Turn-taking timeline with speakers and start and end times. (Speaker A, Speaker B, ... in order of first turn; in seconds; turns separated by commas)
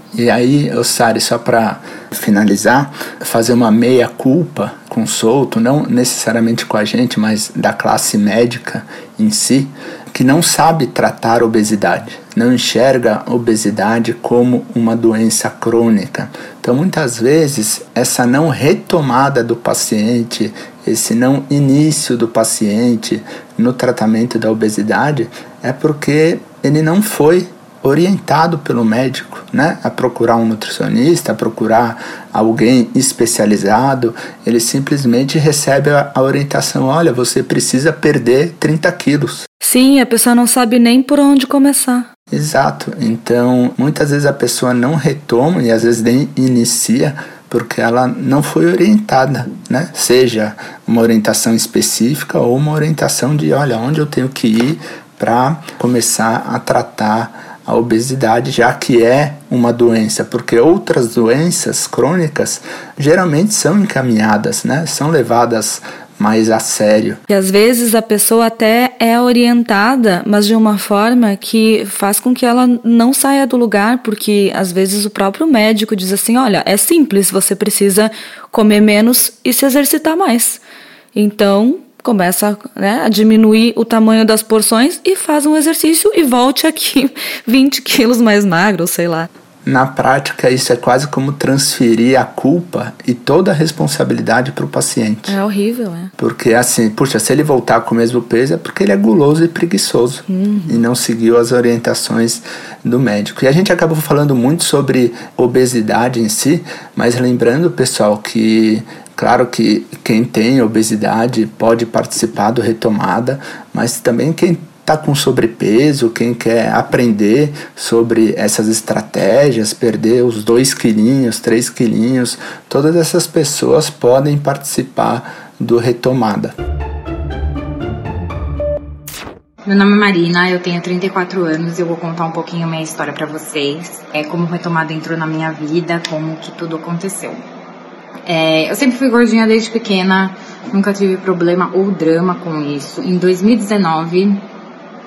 Speaker A: 0.1-39.5, Speaker B: 39.6-42.1, Speaker A: 42.3-67.2, Speaker B: 67.3-80.6, Speaker B: 81.1-89.3, Speaker A: 89.7-95.4, Speaker B: 95.3-96.1, Speaker A: 96.2-126.5, Speaker B: 100.3-100.8, Speaker C: 129.6-137.4, Speaker C: 138.3-144.4